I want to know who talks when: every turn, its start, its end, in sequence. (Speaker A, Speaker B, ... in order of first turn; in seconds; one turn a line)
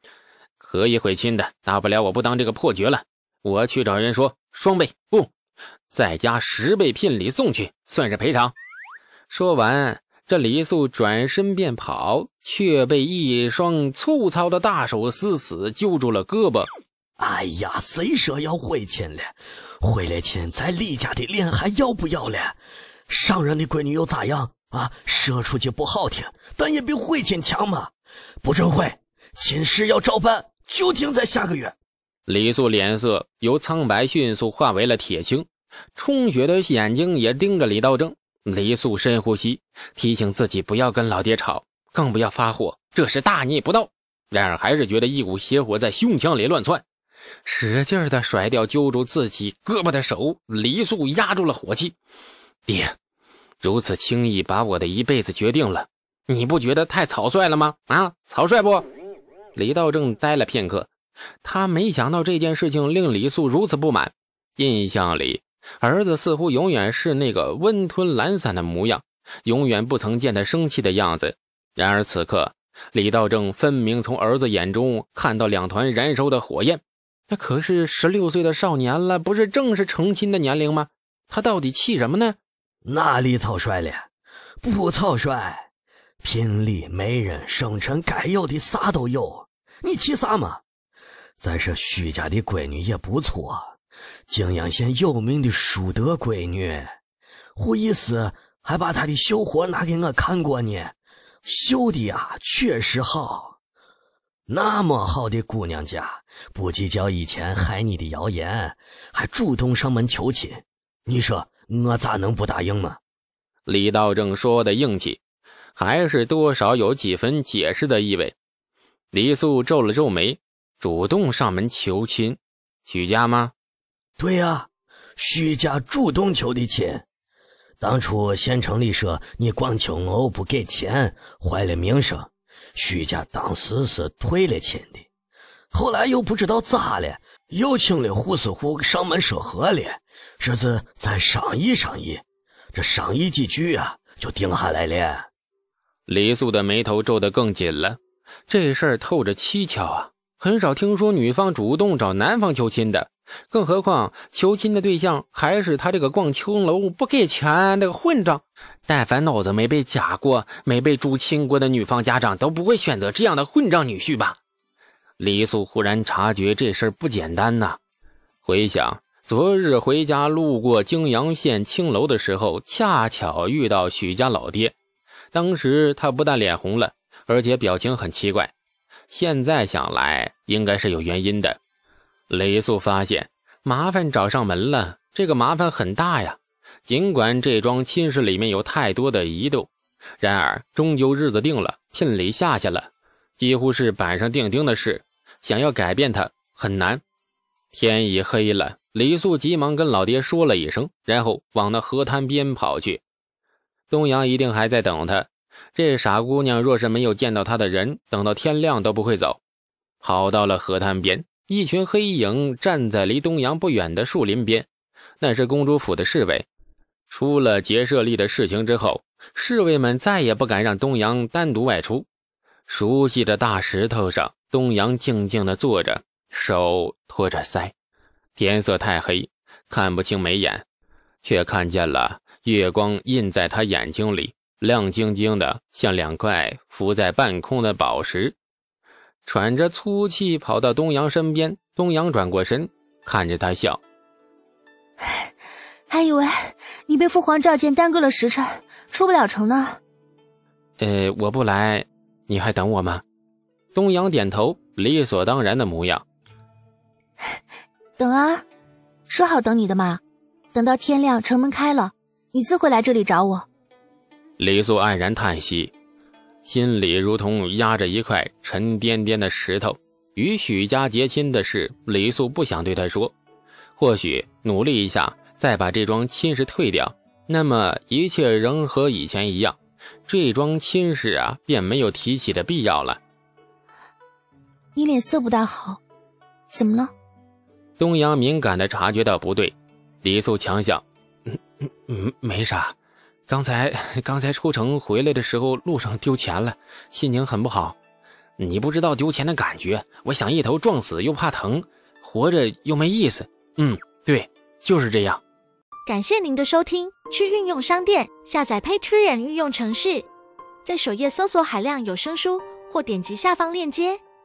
Speaker A: 0.6-5.3
Speaker A: 5.9-8.5
Speaker A: 9.3-16.7
Speaker B: 17.2-22.6
Speaker B: 23.1-31.8
Speaker A: 32.3-46.8
Speaker A: 47.4-52.0
Speaker A: 52.7-53.0
Speaker A: 53.6-58.9
Speaker A: 59.5-60.9
Speaker A: 61.4-82.4
Speaker B: 82.8-84.1
Speaker B: 84.6-85.7
Speaker B: 86.2-90.6
Speaker B: 91.4-93.8
Speaker B: 94.3-96.9
Speaker B: 97.5-103.6
Speaker B: 104.5-113.0
Speaker A: 113.7-115.2
Speaker A: 115.8-118.3
Speaker A: 119.1-123.5
Speaker B: 124.2-127.0
Speaker B: 127.8-135.1
Speaker B: 135.7-145.3
Speaker A: 146.1-164.4
Speaker A: 165.2-167.8
Speaker A: 168.4-174.7
Speaker A: 175.3-178.5
Speaker A: 179.1-181.6
Speaker A: 182.3-197.0
Speaker A: 197.7-203.0
Speaker A: 203.9-209.4
Speaker A: 210.0-214.7
Speaker A: 215.2-216.5
Speaker A: 217.1-222.1
Speaker A: 222.7-227.7
Speaker A: 228.3-230.6
Speaker A: 231.2-238.3
Speaker A: 239.2-243.8
Speaker C: 245.0-245.3
Speaker C: 245.9-249.8
Speaker A: 250.8-253.0
Speaker A: 253.7-256.0
Speaker C: 258.0-258.4
Speaker C: 259.1-260.0
Speaker C: 260.5-263.5
Speaker A: 264.4-265.7
Speaker A: 266.4-273.1
Speaker A: 273.8-283.0
Speaker C: 284.7-285.8
Speaker C: 286.5-286.9
Speaker A: 287.8-292.8
Speaker A: 293.3-297.8
Speaker A: 298.4-305.2
Speaker D: 305.9-310.1
Speaker D: 310.6-314.0